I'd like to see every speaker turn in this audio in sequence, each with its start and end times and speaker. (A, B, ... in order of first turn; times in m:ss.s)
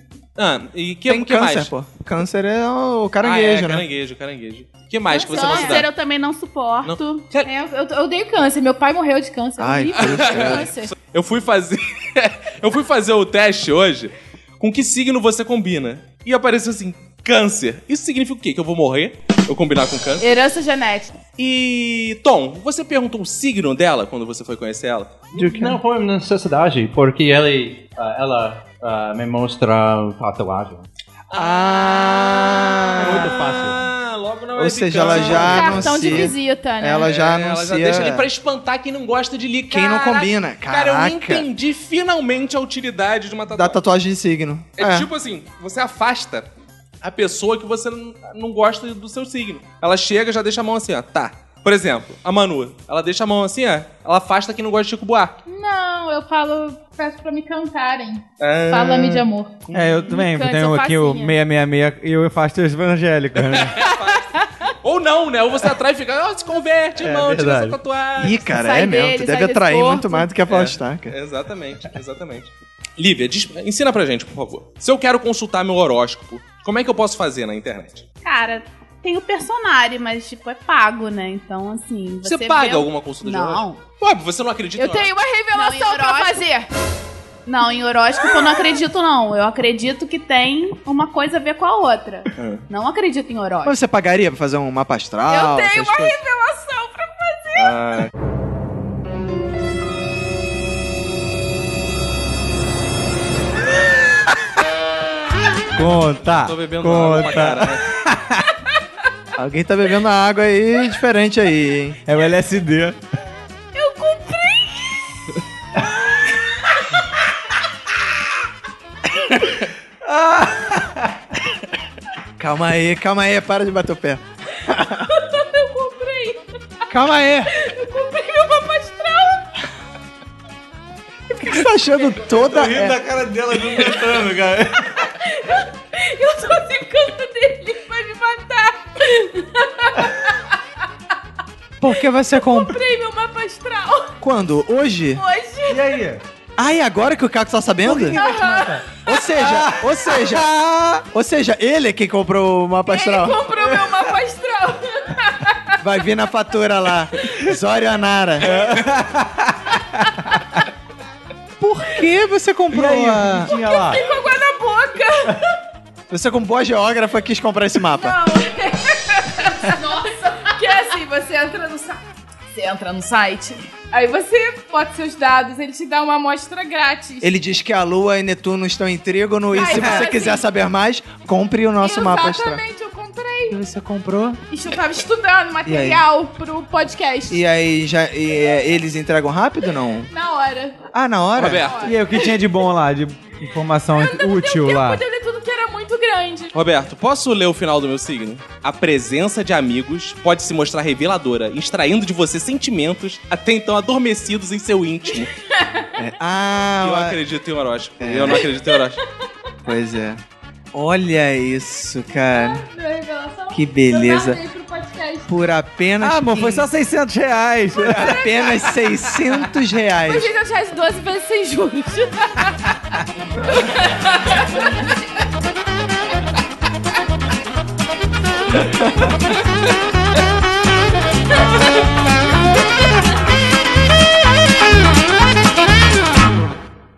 0:00.4-0:01.7 A
0:01.1-0:03.8 B
0:03.2-0:05.9 A
0:05.1-0:05.8 C
0:05.2-0:07.2 D
0:06.8-0:07.5 A
0:07.4-0:10.9 C
0:09.6-0:10.7 B
0:10.0-0:20.3 A
0:20.2-0:21.2 C
0:21.4-0:25.2 A
0:25.3-0:30.8 E
0:25.4-0:25.8 B
0:31.3-0:33.3 B
0:31.4-0:31.6 A
0:32.9-0:36.3 A
0:33.0-0:33.8 F
0:34.6-0:38.3 B
0:35.1-0:37.1 C
0:37.0-0:43.8 A
0:39.7-0:41.5 B
0:43.5-0:45.1 B
0:44.8-0:46.5 A
0:47.0-0:55.3 A
0:55.5-1:01.4 C
0:58.4-1:00.1 A
0:59.7-1:03.8 F
1:03.4-1:08.4 A
1:07.0-1:07.8 F
1:08.2-1:11.1 B
1:08.5-1:10.3 C
1:10.5-1:18.0 A
1:18.2-1:23.8 D
1:22.2-1:25.1 A
1:24.8-1:26.7 C
1:25.5-1:26.4 D
1:27.4-1:33.7 D
1:32.4-1:32.6 A
1:33.6-1:36.2 B
1:35.3-1:37.8 C
1:37.6-1:38.1 A
1:45.7-1:48.4 F
1:46.3-1:47.8 A
1:49.4-1:52.0 B
1:52.0-1:53.0 F
1:53.7-1:54.8 C
2:00.1-2:00.9 F
2:02.4-2:05.1 B
2:05.1-2:06.8 C
2:06.9-2:07.5 B
2:07.5-2:09.5 C
2:11.3-2:13.0 B
2:12.3-2:14.9 F
2:15.1-2:20.4 C
2:21.8-2:22.8 B
2:22.2-2:24.1 C
2:24.2-2:25.2 B
2:25.1-2:26.0 C
2:25.7-2:26.2 F
2:26.6-2:28.2 B
2:27.8-2:28.8 F
2:27.9-2:29.0 C
2:29.0-2:33.7 B
2:29.4-2:30.4 F
2:32.9-2:35.7 C
2:35.8-2:38.8 B
2:38.4-2:39.8 F
2:41.6-2:43.5 B
2:42.7-2:44.0 F
2:43.5-2:45.4 C
2:46.1-2:48.2 B
2:47.9-2:52.0 C
2:52.5-2:57.3 C
2:57.2-3:02.6 B
2:59.5-3:00.4 C
3:01.8-3:03.6 C
3:03.5-3:04.4 B
3:04.5-3:07.4 C
3:05.6-3:06.0 B
3:07.3-3:10.1 B
3:10.1-3:10.8 C
3:10.9-3:11.7 B
3:11.4-3:11.9 A
3:11.5-3:12.4 C
3:11.8-3:15.0 F
3:14.0-3:16.5 C
3:16.5-3:25.3 A
3:25.5-3:25.9 C
3:26.0-3:27.2 B
3:26.8-3:29.0 A
3:28.0-3:28.4 B
3:29.6-3:30.2 B
3:30.7-3:32.6 B
3:32.3-3:35.3 C
3:33.5-3:34.4 B
3:35.3-3:36.7 B
3:36.0-3:38.2 F
3:37.8-3:38.4 C
3:37.8-3:40.3 B
3:40.1-3:42.6 C
3:43.4-3:44.9 C